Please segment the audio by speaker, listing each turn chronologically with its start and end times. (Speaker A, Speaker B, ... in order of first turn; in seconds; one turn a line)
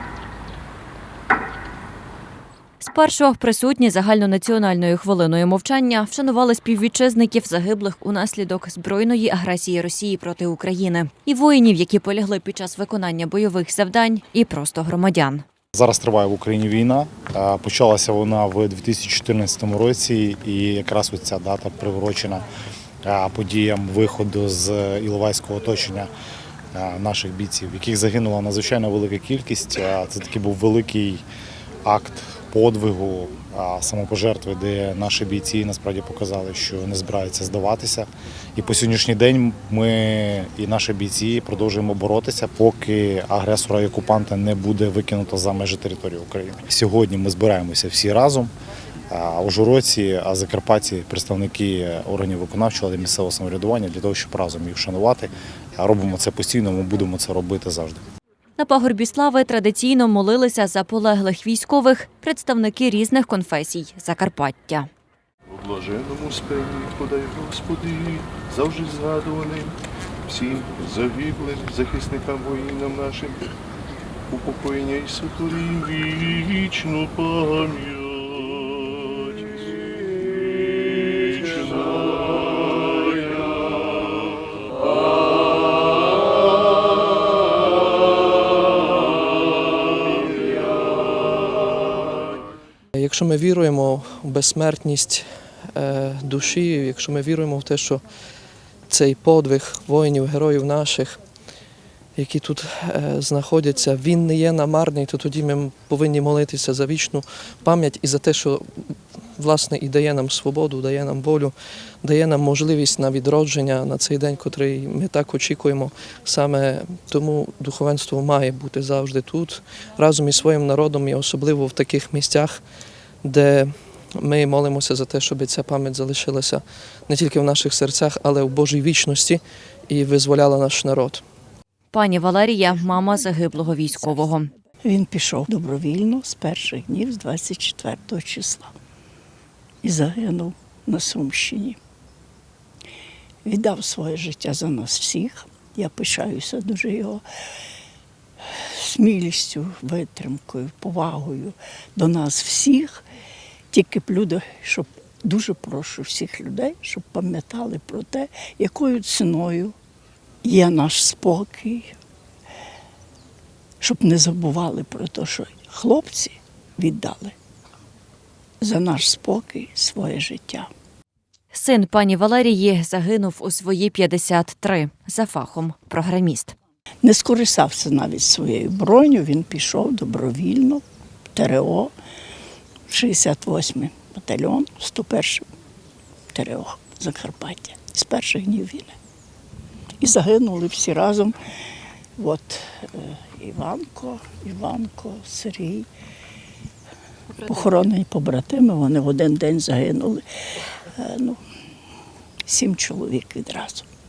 Speaker A: 2.8-15.4
Speaker B: 15.7-22.4
Speaker B: 23.0-26.1
Speaker B: 26.7-31.2
Speaker B: 31.8-48.5
Speaker B: 49.1-58.0
Speaker A: 58.6-64.9
Speaker C: 65.5-73.5
Speaker C: 74.3-79.5
Speaker C: 81.0-83.2
Speaker D: 92.9-98.0
Speaker D: 98.9-101.2
Speaker D: 102.2-122.6
Speaker D: 123.2-131.2
Speaker A: 131.9-134.5
Speaker E: 134.8-138.7
Speaker E: 139.8-141.8
Speaker E: 143.4-147.2
Speaker E: 148.5-153.0
Speaker E: 153.7-159.7
Speaker E: 160.4-161.9
Speaker E: 163.8-167.3
Speaker E: 168.6-170.7
Speaker A: 171.5-176.5
Speaker E: 177.0-180.8
Speaker E: 181.3-181.9
Speaker E: 182.9-185.4
Speaker E: 186.3-188.9
Speaker E: 190.0-191.3
Speaker E: 192.2-195.9
Speaker E: 197.4-200.2
Speaker E: 200.9-201.4
Speaker E: 202.5-203.8